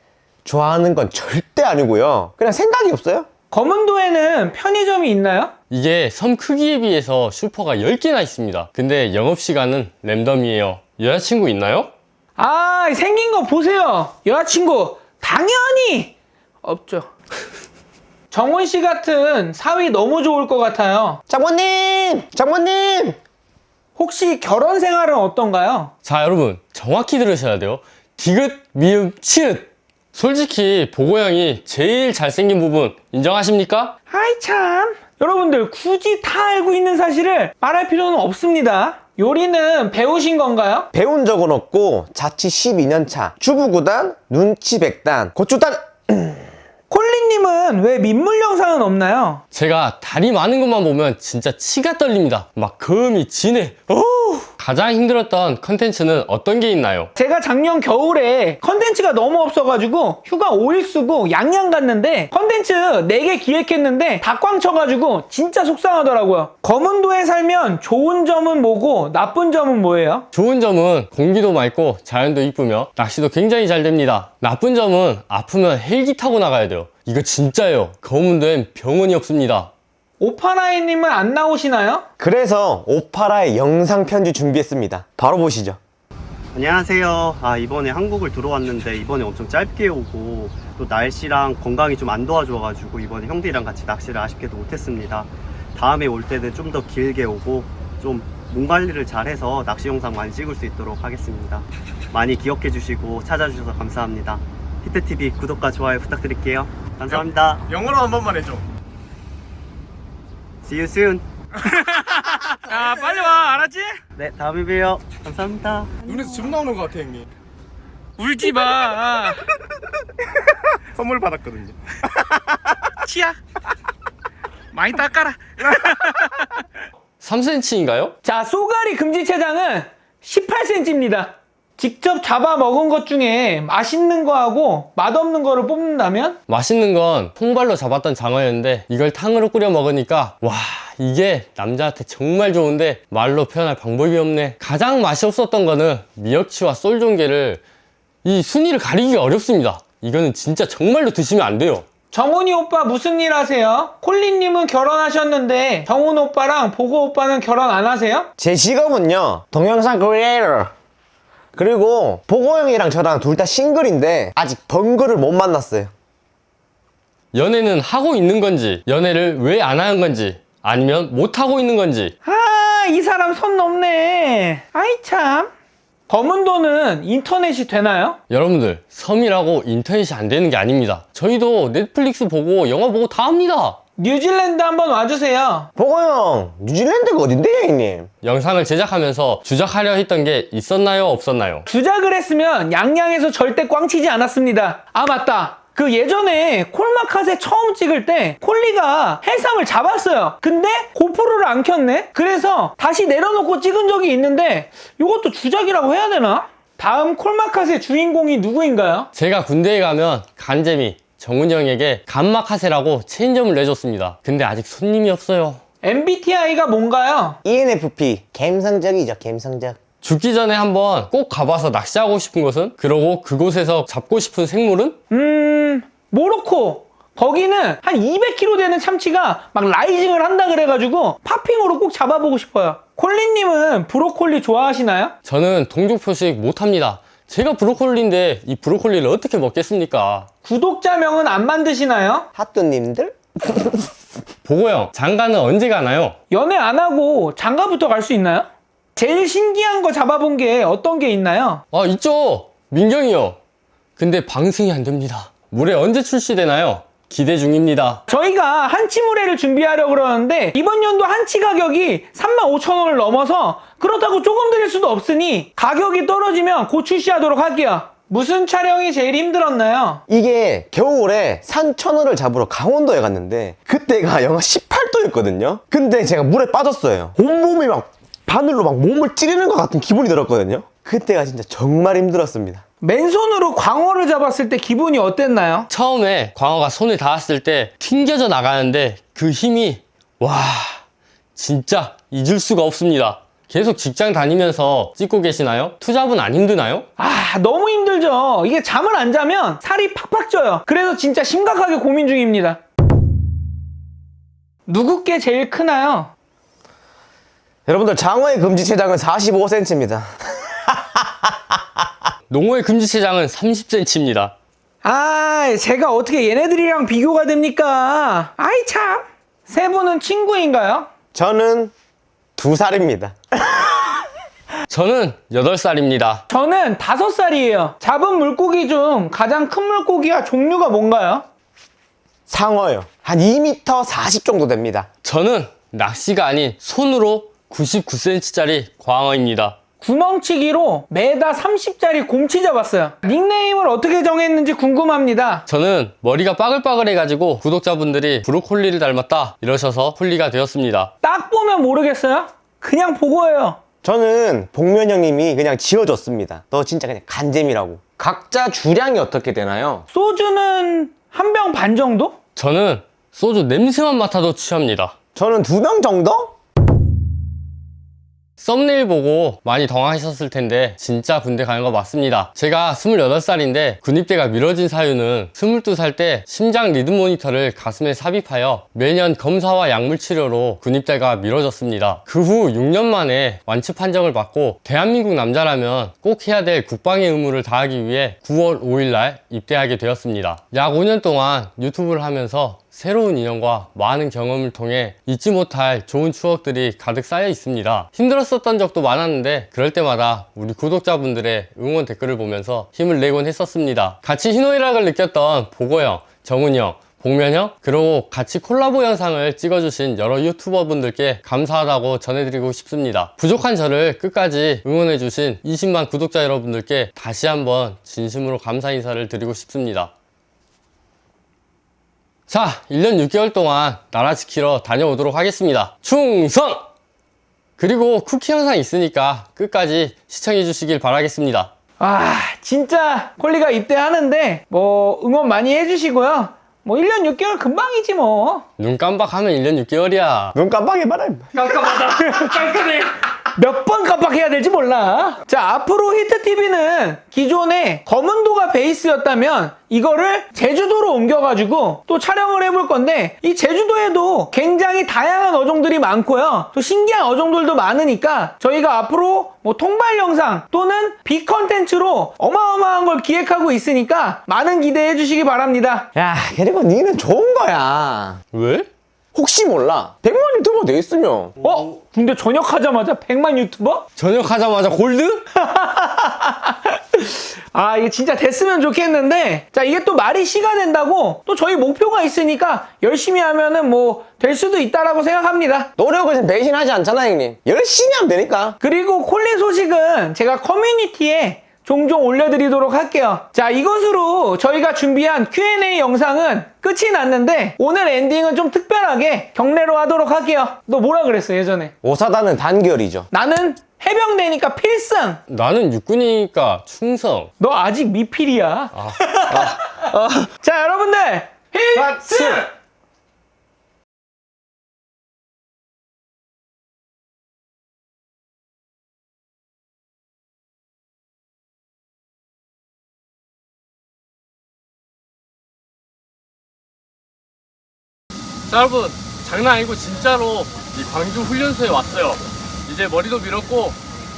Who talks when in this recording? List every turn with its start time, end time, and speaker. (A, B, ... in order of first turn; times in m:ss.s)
0:00.4-0:03.3 A
0:03.5-0:05.5 B
0:05.7-0:11.9 C
0:12.4-0:17.1 B
0:18.3-0:21.2 B
0:21.3-0:23.2 A
0:24.0-0:25.9 B
0:26.0-0:33.9 C
0:34.1-0:40.9 B
0:40.9-0:46.5 A
0:46.9-0:49.4 B
0:49.5-0:57.1 C
0:57.2-1:10.3 B
1:10.3-1:19.7 C
1:20.2-1:22.1 B
1:22.2-1:25.8 A
1:26.5-1:47.6 D
1:47.1-1:48.6 E
1:50.6-1:51.2 D
1:51.7-1:54.0 B
1:54.2-1:55.9 D
1:56.0-1:57.2 E
1:58.2-1:59.4 B
2:00.9-2:01.8 E
2:03.0-2:03.4 B
2:04.7-2:06.4 B
2:07.2-2:08.1 C
2:08.2-2:16.4 B
2:16.5-2:27.6 C
2:28.2-2:31.8 C
2:32.1-2:38.3 B
2:38.4-2:40.7 A
2:41.6-2:45.9 A
2:47.3-2:52.1 C
2:52.2-2:55.5 B
2:56.1-2:58.2 B
2:58.3-3:03.8 C
3:04.0-3:05.7 B
3:05.8-3:08.1 A
3:08.2-3:11.6 C
3:11.7-3:29.1 B
3:29.1-3:35.6 C
3:35.8-3:37.4 B
3:37.4-3:39.8 A
3:40.0-3:45.0 C
3:45.1-3:55.1 B
3:55.2-4:00.3 C
4:00.4-4:02.3 B
4:02.4-4:03.9 A
4:04.4-4:06.2 C
4:06.3-4:11.6 B
4:11.7-4:13.4 C
4:14.0-4:18.0 C
4:18.1-4:30.0 B
4:30.1-4:42.6 A
4:42.8-4:45.7 B
4:45.7-4:50.8 C
4:51.4-4:56.9 C
4:57.0-5:02.6 B
5:04.7-5:06.1 B
5:07.6-5:11.4 A
5:12.3-5:14.3 C
5:14.8-5:20.9 B
5:21.1-5:21.7 A
5:22.4-5:23.9 A
5:24.7-5:26.2 C
5:26.3-5:31.2 B
5:32.3-5:34.9 A
5:35.0-5:39.6 C
5:39.8-5:45.4 B
5:45.5-5:50.9 C
5:51.0-5:53.6 B
5:53.8-5:59.9 A
5:59.9-6:02.2 B
6:02.4-6:05.0 C
6:05.1-6:06.3 A
6:08.4-6:59.9 C
7:02.3-7:06.6 C
7:07.6-7:11.5 C
7:11.8-7:18.5 B
7:18.6-7:20.4 C
7:20.4-7:21.3 A
7:21.3-7:45.9 B
7:46.0-7:48.2 A
7:48.3-7:48.7 C
7:49.1-7:51.4 A
7:51.4-7:53.9 B
7:54.0-7:55.2 C
7:55.4-8:05.7 B
8:05.8-8:08.6 A
8:08.6-8:21.7 B
8:21.8-8:23.1 A
8:23.1-8:25.2 B
8:25.3-8:27.3 C
8:27.4-8:29.7 B
8:29.3-8:30.3 A
8:30.3-8:32.5 B
8:31.8-8:32.4 A
8:48.5-8:53.8 C